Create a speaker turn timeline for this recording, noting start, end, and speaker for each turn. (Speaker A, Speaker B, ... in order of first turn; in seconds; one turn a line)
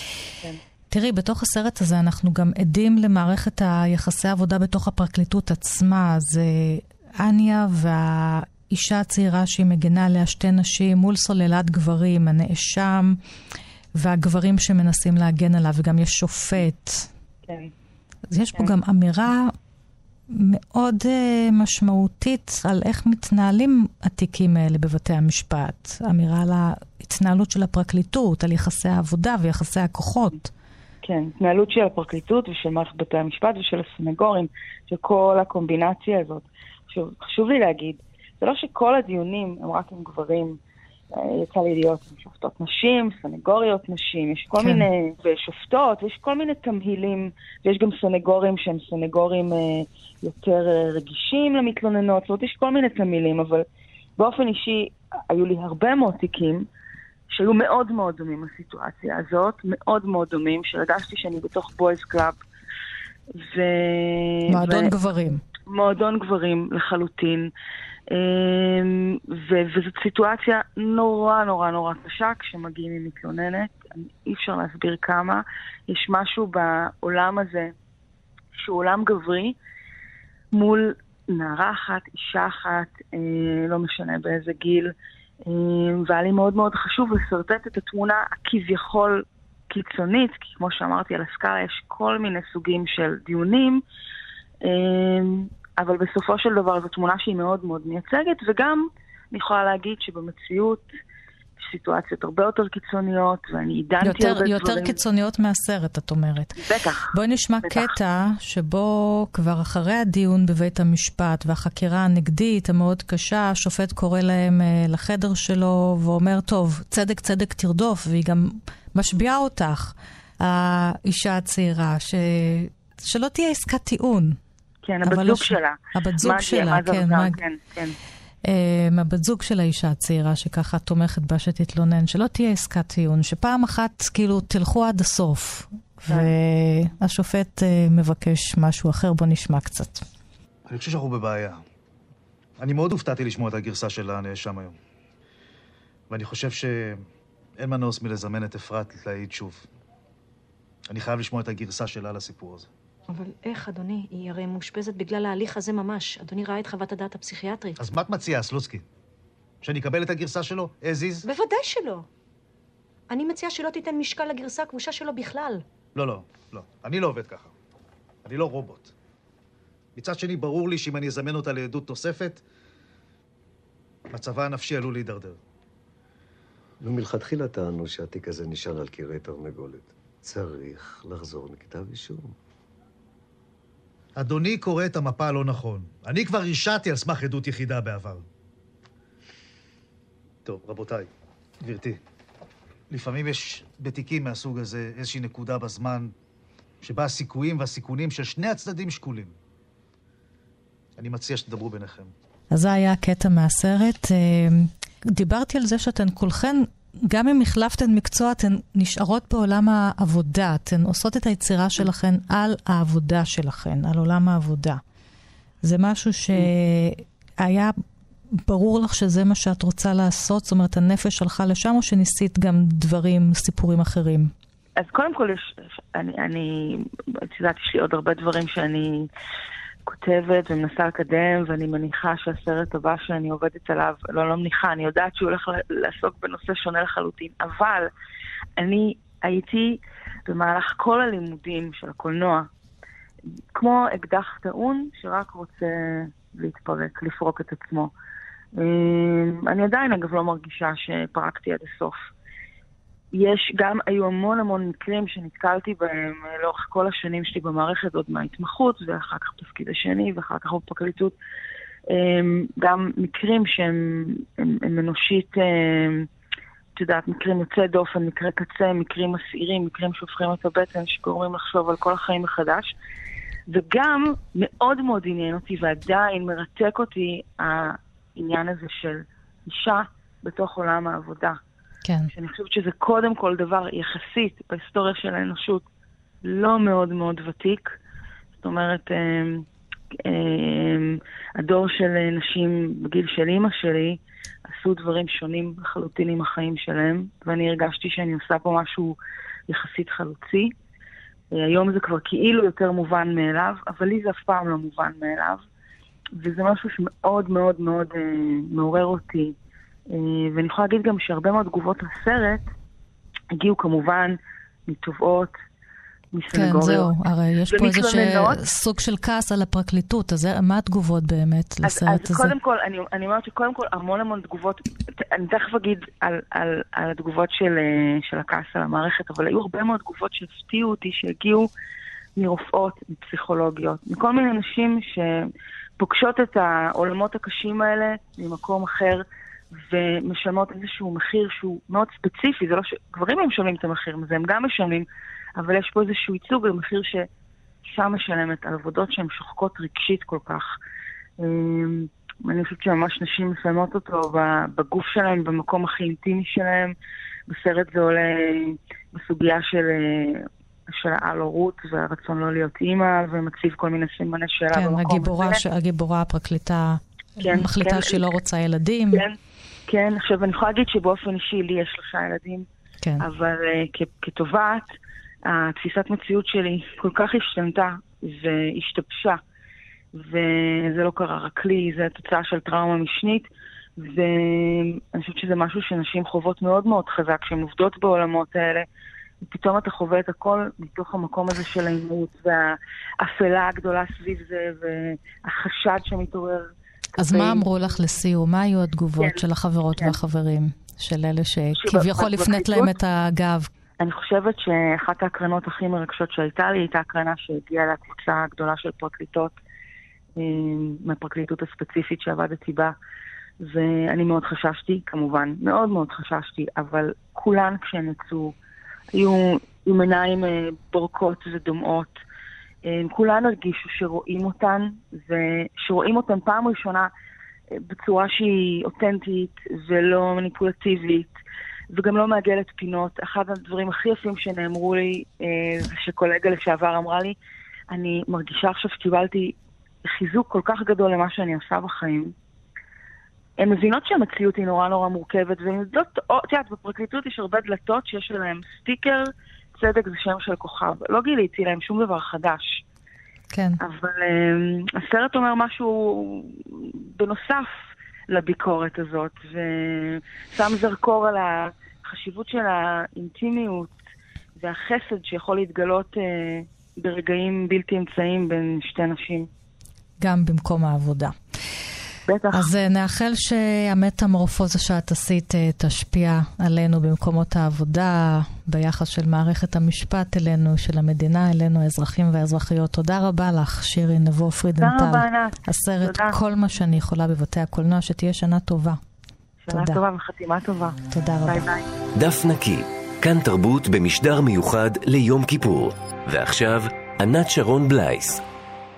Speaker A: 0.9-13.2
Speaker A: 14.0-17.1
Speaker B: 17.5-17.7
Speaker A: 18.3-19.5
Speaker A: 20.3-30.5
Speaker B: 31.0-40.6
Speaker B: 41.1-53.6
Speaker A: 44.6-44.9
Speaker B: 54.2-56.7
Speaker B: 57.3-62.4
Speaker B: 63.3-64.9
Speaker A: 64.5-65.4
Speaker B: 65.7-67.5
Speaker B: 68.1-77.7
Speaker B: 78.5-79.6
Speaker B: 80.5-84.9
Speaker B: 85.5-93.8
Speaker B: 94.6-101.0
Speaker B: 101.6-105.0
Speaker A: 104.0-106.6
Speaker B: 106.6-107.9
Speaker A: 107.1-124.4
Speaker B: 124.8-128.0
Speaker A: 125.0-127.4
Speaker A: 128.4-140.1
Speaker C: 140.7-141.6
Speaker C: 142.6-144.8
Speaker C: 146.1-147.1
Speaker C: 147.6-149.7
Speaker C: 150.9-152.7
Speaker D: 153.1-157.8
Speaker C: 157.8-158.8
Speaker C: 159.6-161.2
Speaker D: 161.2-162.1
Speaker D: 163.1-165.6
Speaker C: 166.0-167.5
Speaker C: 168.2-168.9
Speaker C: 170.0-172.4
Speaker C: 174.1-175.4
Speaker E: 176.8-182.4
Speaker C: 184.2-188.2
Speaker C: 190.4-191.1
Speaker C: 191.6-192.0
Speaker C: 192.9-196.1
Speaker C: 196.8-199.3
Speaker C: 201.0-202.1
Speaker A: 202.5-214.8
Speaker A: 215.6-217.7
Speaker A: 218.4-224.3
Speaker B: 224.8-229.1
Speaker B: 229.9-237.9
Speaker B: 238.6-242.5
Speaker B: 243.5-247.9
Speaker B: 248.6-252.1
Speaker B: 253.1-261.1
Speaker B: 261.9-266.1
Speaker B: 266.8-272.8
Speaker B: 273.5-281.4
Speaker A: 281.9-282.1
Speaker B: 282.1-285.7
Speaker B: 286.2-287.8
Speaker B: 288.4-289.5
Speaker B: 290.0-299.0
Speaker B: 299.5-300.5
Speaker B: 301.3-305.4
Speaker B: 306.2-309.4
Speaker B: 309.9-312.5
Speaker B: 313.3-315.4
Speaker B: 316.1-316.9
Speaker A: 316.3-322.3
Speaker B: 317.5-318.4
Speaker B: 321.6-331.5
Speaker B: 332.2-347.1
Speaker B: 347.6-350.6
Speaker B: 351.2-356.8
Speaker B: 357.3-365.4
Speaker A: 364.5-369.1
Speaker B: 367.2-368.1
Speaker B: 368.9-372.5
Speaker B: 373.0-374.7
Speaker B: 375.2-379.2
Speaker B: 379.9-388.7
Speaker B: 389.2-397.4
Speaker A: 397.0-403.5
Speaker B: 401.6-402.7
Speaker B: 403.8-409.4
Speaker B: 410.2-412.7
Speaker B: 413.4-418.4
Speaker B: 418.9-422.0
Speaker B: 422.6-426.9
Speaker B: 427.5-431.2
Speaker B: 431.7-437.2
Speaker B: 437.7-442.1
Speaker B: 443.4-452.6
Speaker A: 453.3-453.6
Speaker B: 453.6-463.8
Speaker B: 464.4-469.3
Speaker A: 470.0-471.1
Speaker B: 472.1-472.5
Speaker A: 472.3-488.8
Speaker B: 484.6-486.2
Speaker B: 489.4-491.7
Speaker A: 489.5-489.8
Speaker A: 490.9-491.5
Speaker F: 492.0-498.2